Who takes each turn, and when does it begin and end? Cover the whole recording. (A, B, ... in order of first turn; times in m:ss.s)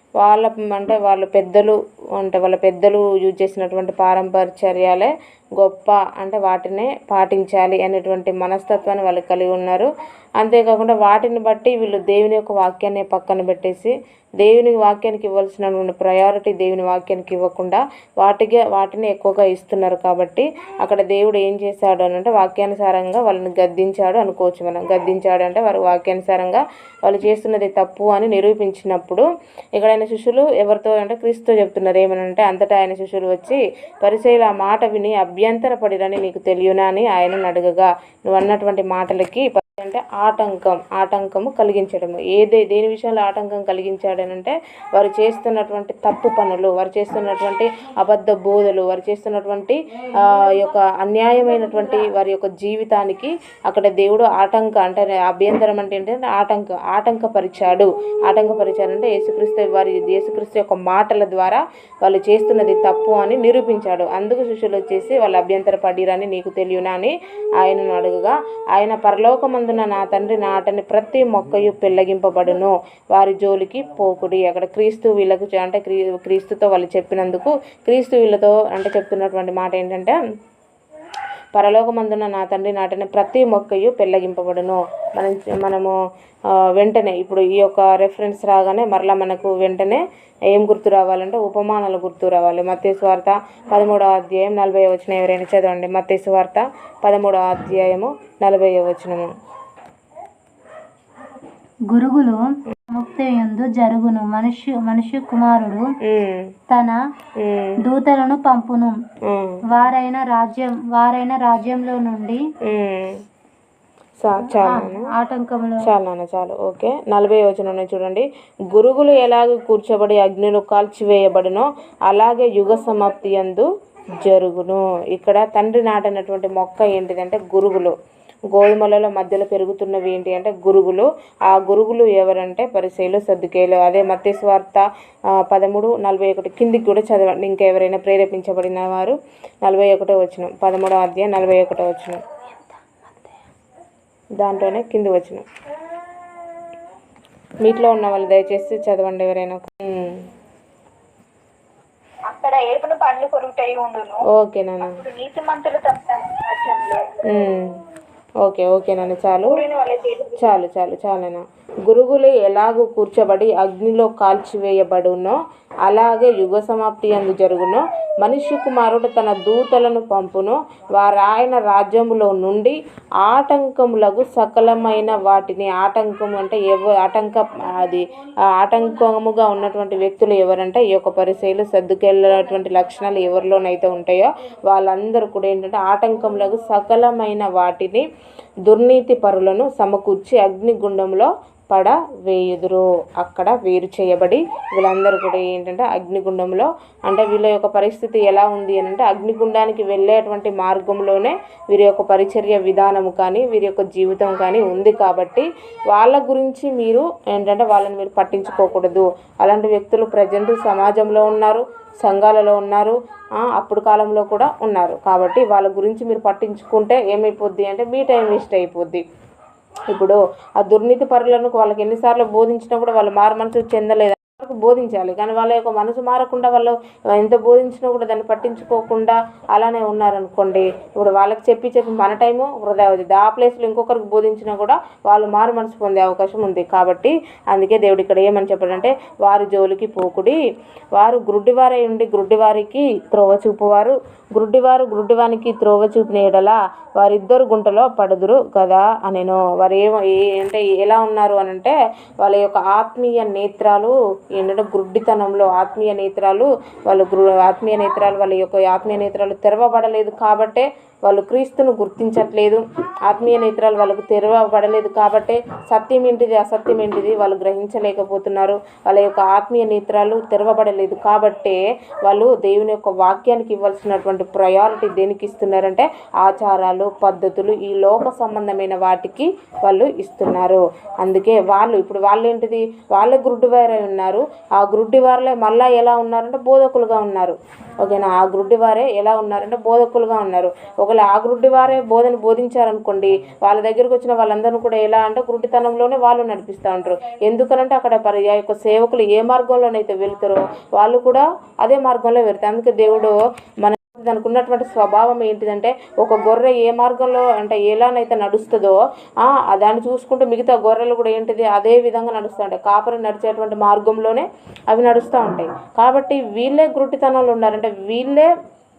0:00.2-1:20.2 A
1:21.5-1:26.0 A
1:26.5-1:39.3 A
1:41.9-1:45.8 B
1:46.0-1:46.5 A
1:46.7-1:47.0 B
1:47.4-1:47.8 A
1:47.8-1:49.0 B
1:49.3-1:49.6 A
1:49.7-1:52.4 B
1:52.6-1:53.2 A
1:54.2-1:55.1 A
1:54.4-1:55.9 B
1:55.8-2:03.7 A
2:04.2-2:08.0 A
2:08.5-2:14.9 A
2:15.4-2:22.2 A
2:24.4-2:25.5 A
2:27.6-2:30.3 A
2:32.3-2:34.2 C
2:34.3-2:35.0 A
2:34.8-2:37.2 C
2:37.3-2:37.8 A
2:38.4-2:39.6 A
2:39.4-2:40.6 C
2:40.4-3:08.1 A
3:08.7-3:39.0 A
3:39.9-4:00.4 A
4:01.0-5:18.3 A